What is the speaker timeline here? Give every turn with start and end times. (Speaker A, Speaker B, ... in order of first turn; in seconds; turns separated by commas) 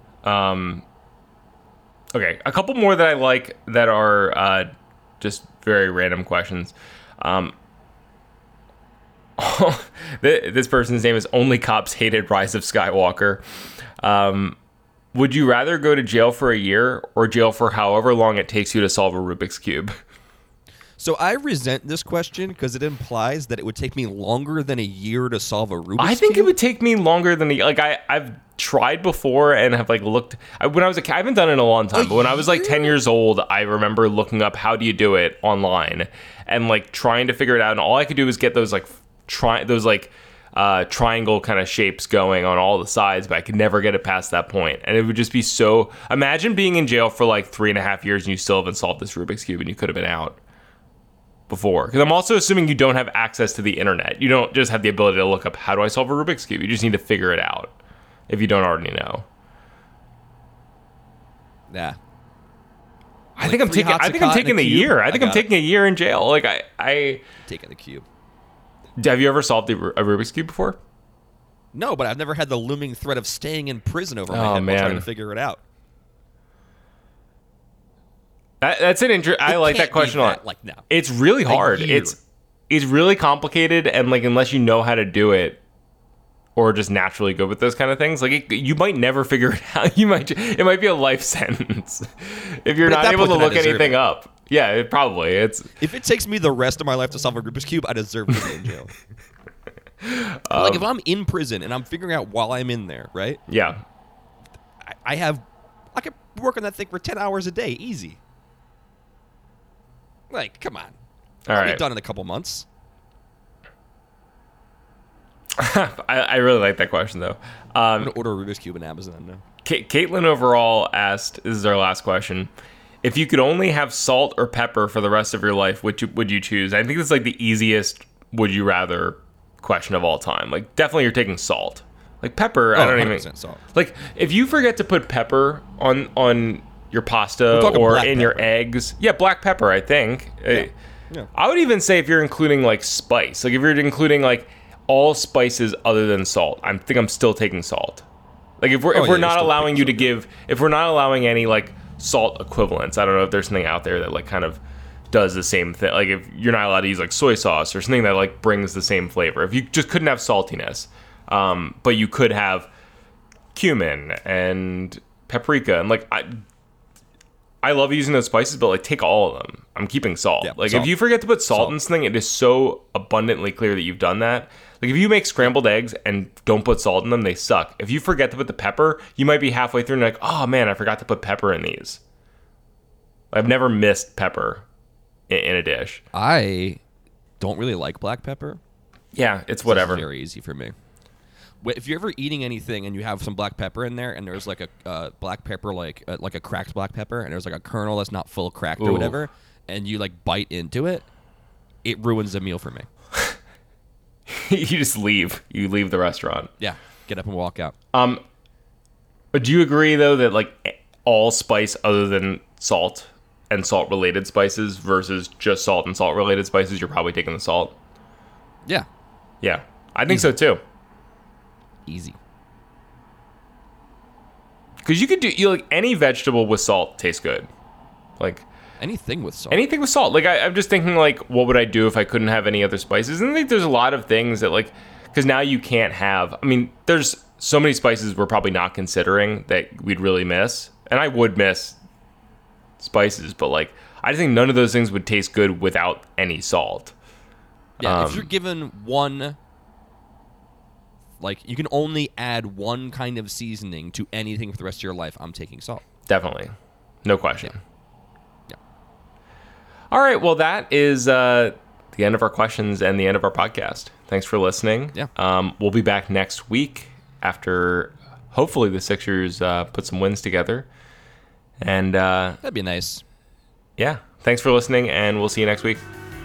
Speaker A: 0.2-0.8, Speaker A: 2.1-4.7, Speaker A: 5.2-7.5, Speaker A: 9.4-13.4, Speaker A: 14.0-14.6, Speaker A: 15.1-20.0, Speaker B: 21.0-26.5, Speaker A: 26.0-50.4, Speaker B: 31.9-33.0, Speaker A: 51.5-57.7, Speaker A: 58.3-59.3, Speaker B: 61.7-62.0, Speaker A: 63.4-67.2, Speaker B: 63.4-65.5, Speaker B: 67.4-68.0, Speaker A: 69.0-70.8, Speaker B: 71.7-75.6, Speaker A: 74.3-75.1, Speaker A: 78.6-82.2, Speaker B: 79.4-80.8, Speaker B: 81.5-82.2, Speaker A: 82.7-85.6, Speaker A: 86.5-95.7, Speaker B: 92.8-94.0, Speaker B: 95.8-98.9, Speaker A: 100.0-100.8, Speaker B: 100.5-103.4, Speaker A: 103.5-103.8, Speaker B: 104.8-108.2, Speaker B: 110.3-111.0, Speaker A: 111.5-111.8, Speaker B: 111.5-112.7, Speaker A: 115.5-118.1, Speaker B: 118.0-119.4, Speaker A: 119.6-122.5, Speaker A: 123.0-140.7, Speaker B: 132.7-133.6, Speaker B: 137.5-138.5, Speaker B: 140.5-141.3, Speaker A: 141.3-148.1, Speaker A: 148.6-162.7, Speaker B: 148.9-150.1, Speaker A: 163.5-166.4, Speaker A: 167.6-182.0, Speaker B: 170.4-170.9, Speaker A: 183.3-184.6, Speaker A: 185.3-186.0, Speaker B: 186.1-186.8, Speaker B: 187.4-188.6, Speaker A: 189.1-190.0, Speaker B: 189.6-190.7, Speaker B: 191.6-201.1, Speaker A: 198.8-199.2, Speaker B: 201.8-202.9, Speaker A: 204.3-206.5, Speaker B: 206.6-207.7, Speaker A: 207.9-208.2, Speaker A: 209.3-217.7, Speaker A: 219.4-220.6, Speaker B: 221.9-222.2, Speaker A: 224.8-227.5, Speaker A: 228.2-228.4, Speaker B: 228.8-229.6, Speaker A: 229.5-241.8, Speaker A: 242.8-246.9, Speaker B: 247.8-249.4, Speaker A: 247.8-248.3, Speaker B: 251.2-255.8, Speaker A: 256.1-256.5, Speaker A: 257.0-257.6, Speaker A: 259.9-270.7, Speaker A: 271.6-272.4, Speaker B: 272.4-273.0, Speaker A: 273.8-275.8